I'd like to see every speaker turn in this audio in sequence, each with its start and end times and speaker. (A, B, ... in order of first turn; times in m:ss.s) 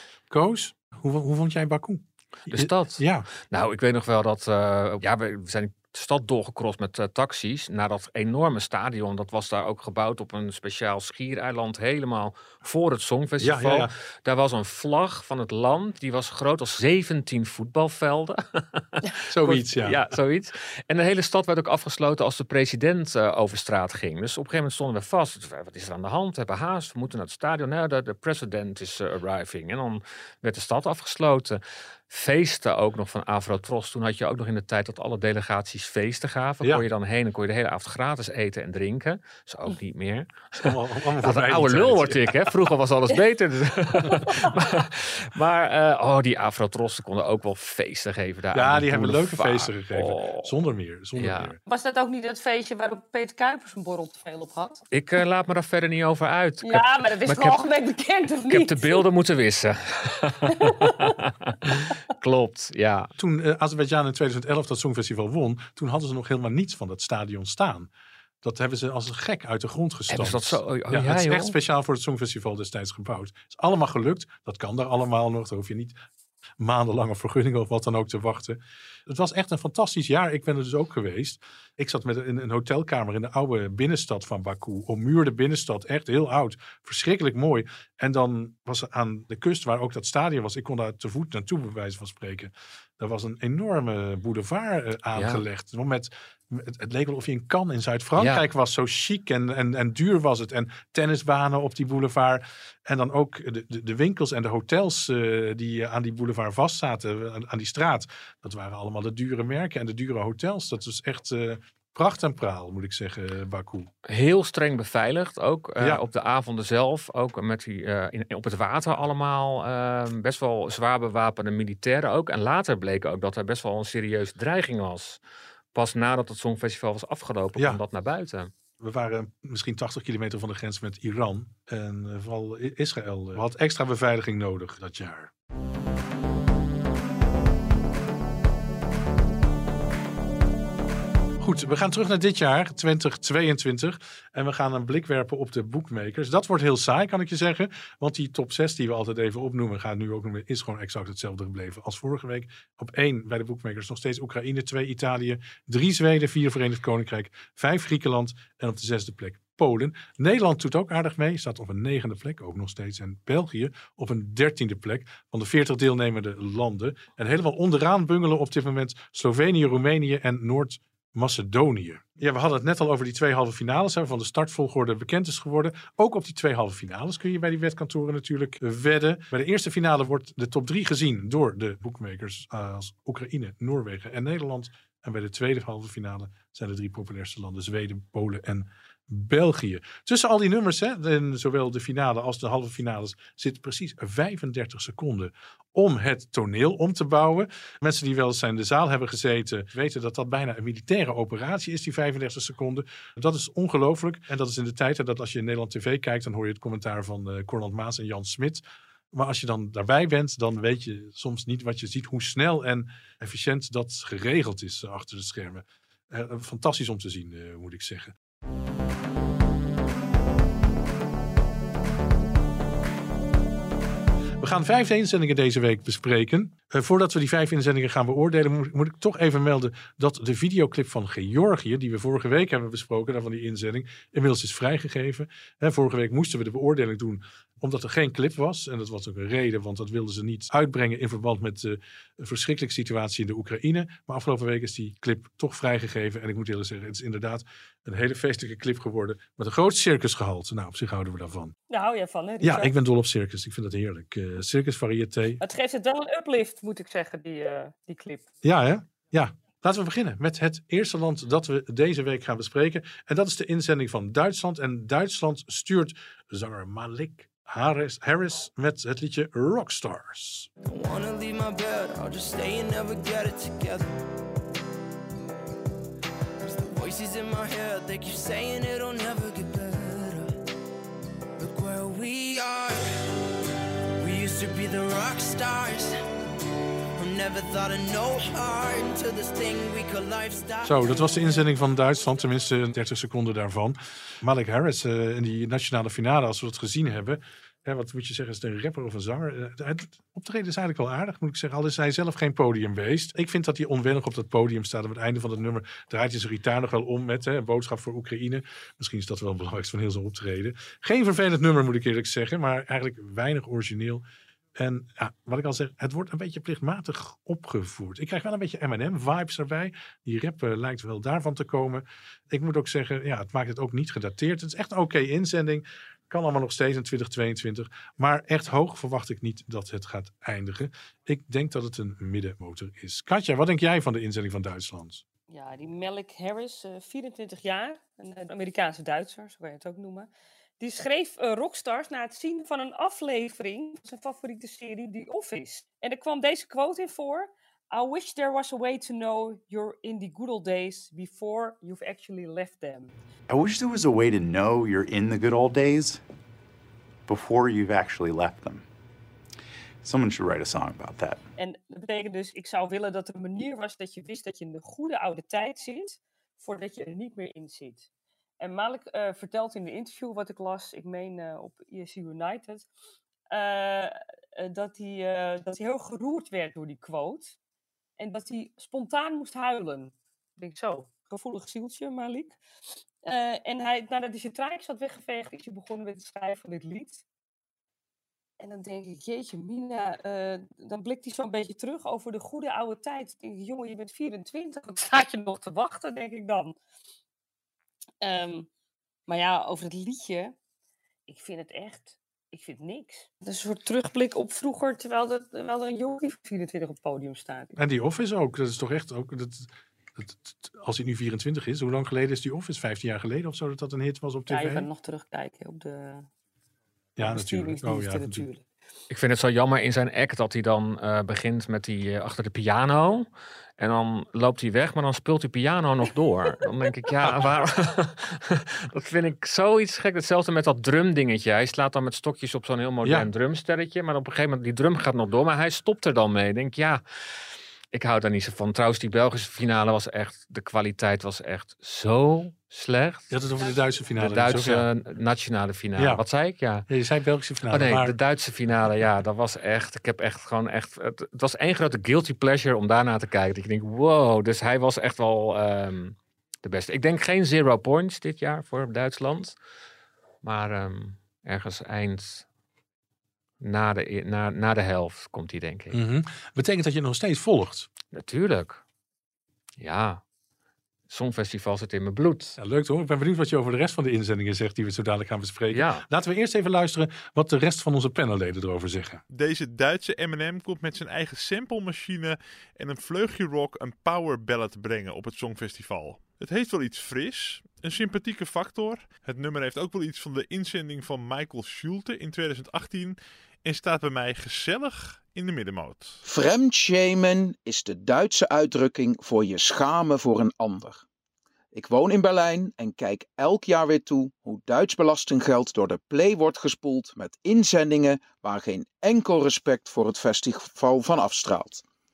0:00.3-0:03.3 A
0:02.5-0:40.7 B
0:13.4-0:13.9 A
0:19.3-0:20.0 A
0:40.6-0:42.5 A
0:41.2-0:50.5 B
0:48.5-0:51.6 A
0:51.2-0:51.5 B
0:51.7-0:54.8 C
0:54.9-0:57.6 B
0:56.6-0:59.0 C
0:58.5-1:03.1 B
1:03.2-1:07.9 A
1:08.4-1:16.0 A
1:10.1-1:11.6 B
1:16.6-1:53.9 A
1:35.2-1:35.4 B
1:38.2-1:38.4 B
1:54.1-2:05.2 B
2:05.7-2:08.5 B
2:07.6-2:07.8 A
2:08.8-2:15.3 A
2:21.4-3:38.1 A
3:44.4-4:11.5 A
4:11.7-4:12.7 C
4:12.4-4:15.4 A
4:15.4-4:18.3 C
4:18.4-4:30.5 A
4:30.7-4:34.0 D
4:36.4-4:40.4 D
4:41.4-4:42.9 D
4:44.0-4:46.0 D
4:47.0-4:51.5 D
4:50.6-5:14.0 A
5:14.6-5:35.0 A
5:35.3-5:40.1 C
5:40.6-5:52.9 C
5:53.3-5:56.0 E
5:57.1-5:58.6 E
5:59.8-6:01.2 E
6:01.4-6:07.9 C
6:08.4-6:12.7 C
6:13.3-6:17.4 C
6:18.0-6:22.4 C
6:23.0-6:27.0 C
6:28.4-6:36.6 C
6:38.0-6:38.5 C
6:39.1-6:40.4 C
6:41.1-6:47.6 C
6:47.6-6:54.7 A
6:54.3-6:56.1 C
6:57.0-6:58.3 A
6:57.0-6:58.4 C
6:58.9-7:03.1 B
7:03.6-7:16.8 B
7:07.0-7:07.3 A
7:12.8-7:13.1 A
7:17.7-7:23.1 B
7:23.1-7:24.7 A
7:24.0-7:26.7 B
7:25.8-7:26.0 A
7:26.7-7:28.0 A
7:27.5-7:39.4 B
7:40.2-7:42.3 B
7:43.4-7:45.8 B
7:45.7-7:47.7 A
7:47.9-7:48.6 B
7:49.6-7:50.0 B
7:50.9-7:52.4 B
7:52.4-7:59.0 A
7:55.5-7:55.8 B
7:59.1-8:16.0 F
8:16.0-8:20.8 G
8:21.5-8:31.6 G